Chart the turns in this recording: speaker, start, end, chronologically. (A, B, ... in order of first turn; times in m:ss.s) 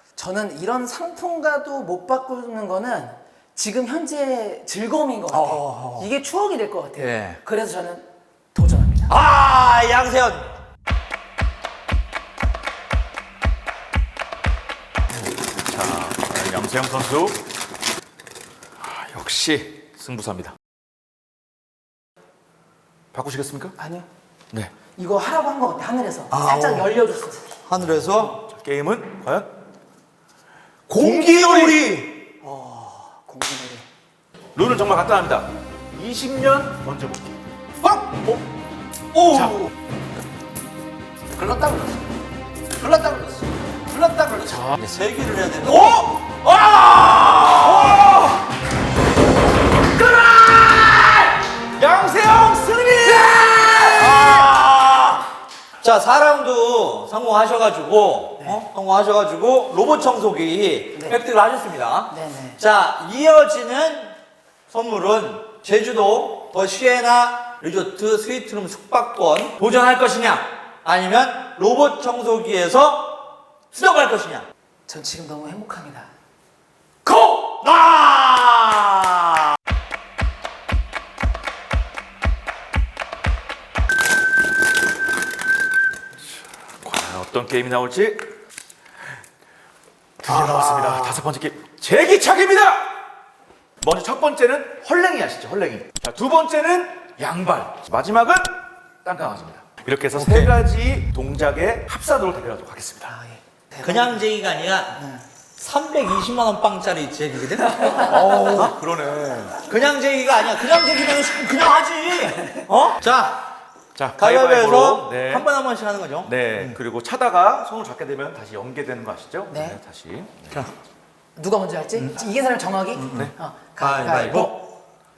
0:00.2-0:09.1 A
0:05.3-0:06.1 B
0:07.0-0:07.4 B
0:09.1-0:10.5 B
0:15.4-0:17.4 C
0:18.8-0:20.5 C
0:23.1-0:23.8 C
0:23.8-0:24.1 A
0:25.0-0:27.5 A
0:26.3-0:26.9 B
0:27.6-0:28.4 B
0:28.2-0:29.5 C
0:30.9-0:32.0 C
0:31.0-0:32.2 B
0:32.4-0:33.9 A
0:34.5-0:37.4 C
0:37.8-0:38.4 B
0:39.1-0:39.7 B
0:39.3-0:39.7 C
0:41.4-0:41.8 C
0:42.8-0:46.1 B
0:43.9-0:44.8 C
0:45.6-0:46.8 C
0:46.7-0:48.1 B
0:47.6-0:48.4 C
0:50.0-0:51.2 A
0:51.8-0:54.4 C
0:53.4-0:53.8 A
0:53.9-0:55.3 B
0:55.8-1:04.1 B
1:00.9-1:01.2 A
1:02.1-1:02.6 A
1:04.7-1:14.5 B
1:14.9-1:16.1 A
1:17.0-1:19.4 B
1:26.8-1:28.2 C
1:30.2-1:32.9 C
1:30.3-1:31.2 B
1:33.8-1:43.1 C
1:40.1-1:40.5 B
1:43.1-1:44.2 A
1:43.8-1:45.0 B
1:45.0-1:45.2 A
1:45.6-1:48.7 B
1:47.9-1:49.6 C
1:49.6-1:53.5 B
1:53.9-1:55.5 C
1:54.2-1:56.8 B
1:56.2-2:00.6 C
1:59.5-1:59.8 A
2:01.4-2:04.5 A
2:03.0-2:04.5 B
2:04.2-2:04.5 C